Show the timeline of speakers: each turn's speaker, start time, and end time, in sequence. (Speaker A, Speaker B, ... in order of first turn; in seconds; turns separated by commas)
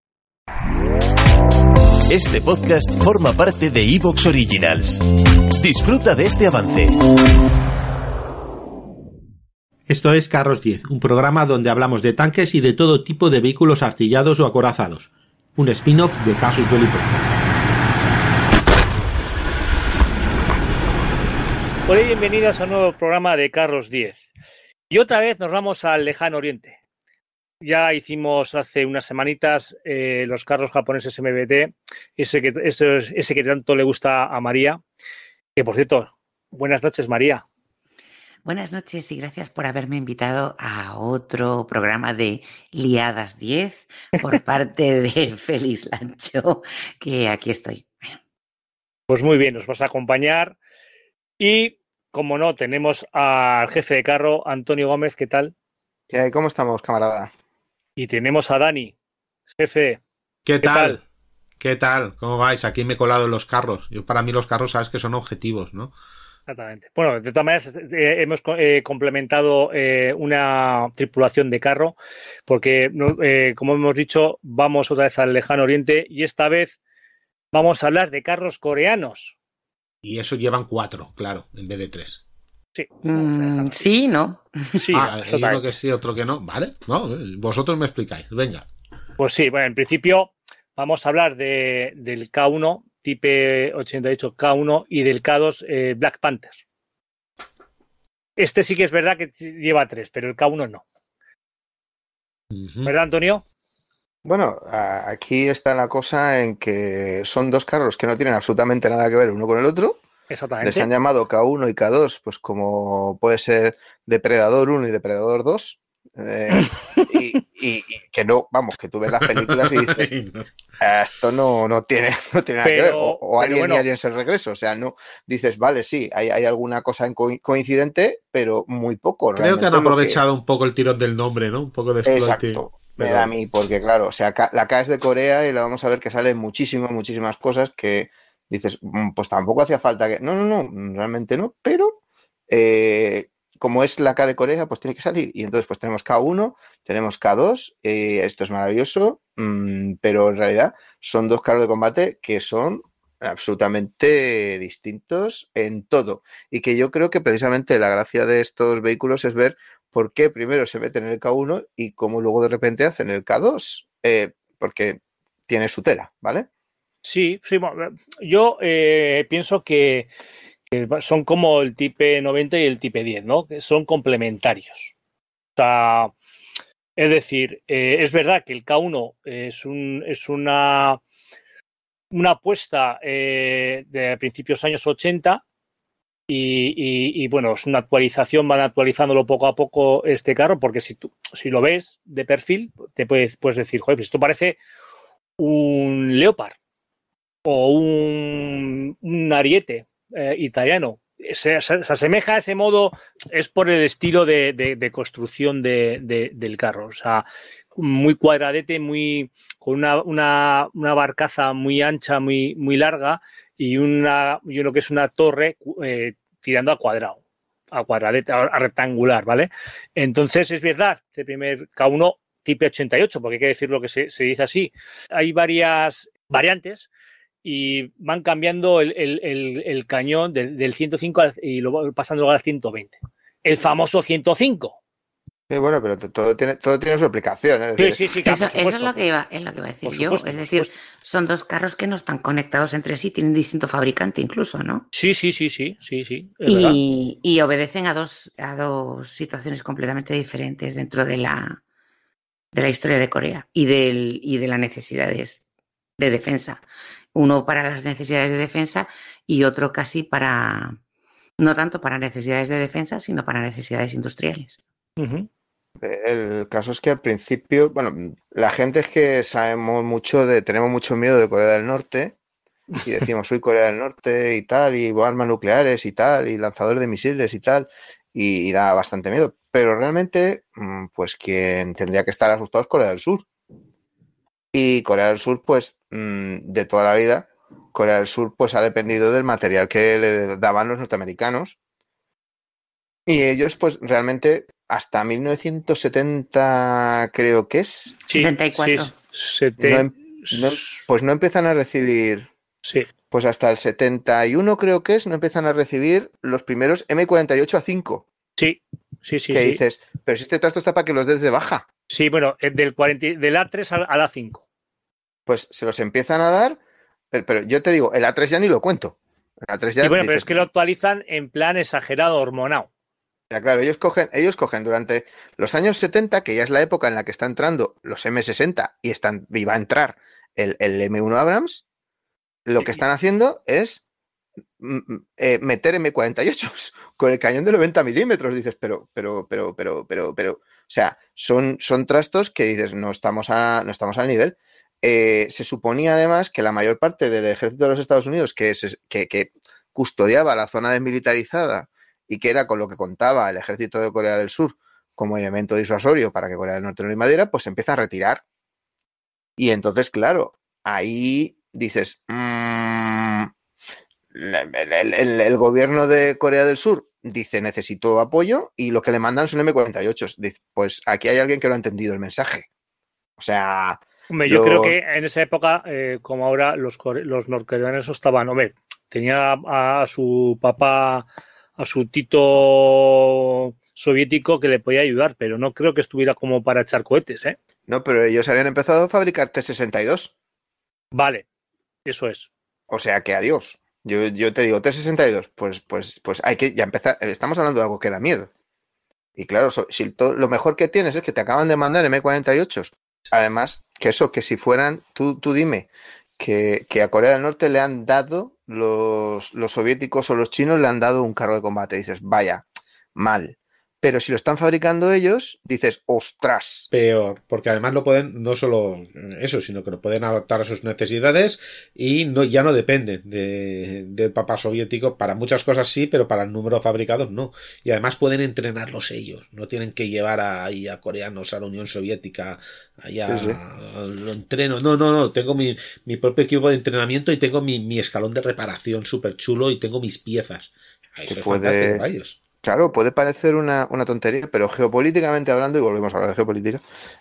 Speaker A: 2.1-5.0, Speaker A: 5.6-7.0, Speaker B: 9.9-17.3, Speaker C: 21.9-24.2, Speaker C: 24.9-26.8, Speaker C: 27.6-34.8, Speaker C: 35.5-37.4, Speaker D: 38.4-48.2, Speaker C: 49.1-50.6, Speaker C: 51.4-55.5, Speaker E: 56.1-57.3, Speaker C: 58.0-58.9, Speaker C: 59.5-60.0, Speaker B: 60.4-61.0, Speaker C: 60.6-61.0, Speaker B: 61.6-65.9, Speaker C: 66.5-76.8, Speaker C: 77.5-79.3, Speaker B: 80.0-82.2, Speaker C: 82.7-83.9, Speaker D: 83.0-84.8, Speaker C: 84.8-85.7, Speaker B: 84.9-88.7, Speaker C: 89.2-96.6, Speaker C: 98.4-100.8, Speaker B: 102.5-102.9, Speaker C: 102.8-103.4, Speaker E: 104.2-110.0, Speaker C: 110.3-110.9, Speaker E: 110.6-120.1, Speaker B: 119.2-120.5, Speaker E: 120.8-130.2, Speaker C: 122.6-123.9, Speaker B: 129.3-133.3, Speaker E: 132.0-142.0, Speaker E: 142.5-166.5, Speaker C: 167.0-170.1, Speaker C: 170.7-174.9, Speaker C: 175.6-176.1, Speaker C: 176.9-181.0, Speaker C: 182.1-185.4, Speaker C: 186.3-194.6, Speaker C: 195.4-196.6, Speaker C: 197.4-217.2, Speaker C: 217.7-226.9, Speaker C: 227.4-234.8, Speaker E: 235.5-238.4, Speaker C: 237.8-239.0, Speaker D: 238.3-244.8, Speaker C: 239.8-240.7, Speaker C: 244.9-246.8, Speaker D: 246.5-251.6, Speaker D: 252.5-255.4, Speaker D: 256.0-256.6, Speaker D: 257.1-260.8, Speaker D: 261.4-264.6, Speaker C: 265.0-265.3, Speaker E: 265.8-272.2, Speaker E: 272.8-283.3, Speaker E: 284.5-291.6, Speaker E: 293.1-298.0, Speaker C: 298.1-300.8, Speaker D: 298.1-298.9, Speaker E: 299.6-302.3, Speaker E: 303.1-308.1, Speaker C: 308.4-309.6, Speaker E: 309.3-311.6, Speaker C: 311.9-314.4, Speaker E: 315.3-316.6, Speaker E: 317.1-320.5, Speaker C: 319.8-322.7, Speaker E: 323.3-331.6, Speaker E: 332.4-333.8, Speaker C: 332.6-332.8, Speaker E: 334.6-358.2, Speaker E: 359.4-363.3, Speaker E: 364.1-372.5, Speaker E: 373.2-374.8, Speaker C: 374.1-387.4, Speaker E: 387.7-390.1, Speaker C: 390.9-391.2, Speaker C: 391.8-392.3, Speaker E: 392.7-398.3, Speaker E: 399.1-416.7, Speaker B: 416.7-442.2, Speaker E: 433.1-433.4, Speaker E: 441.1-441.8, Speaker E: 442.4-446.6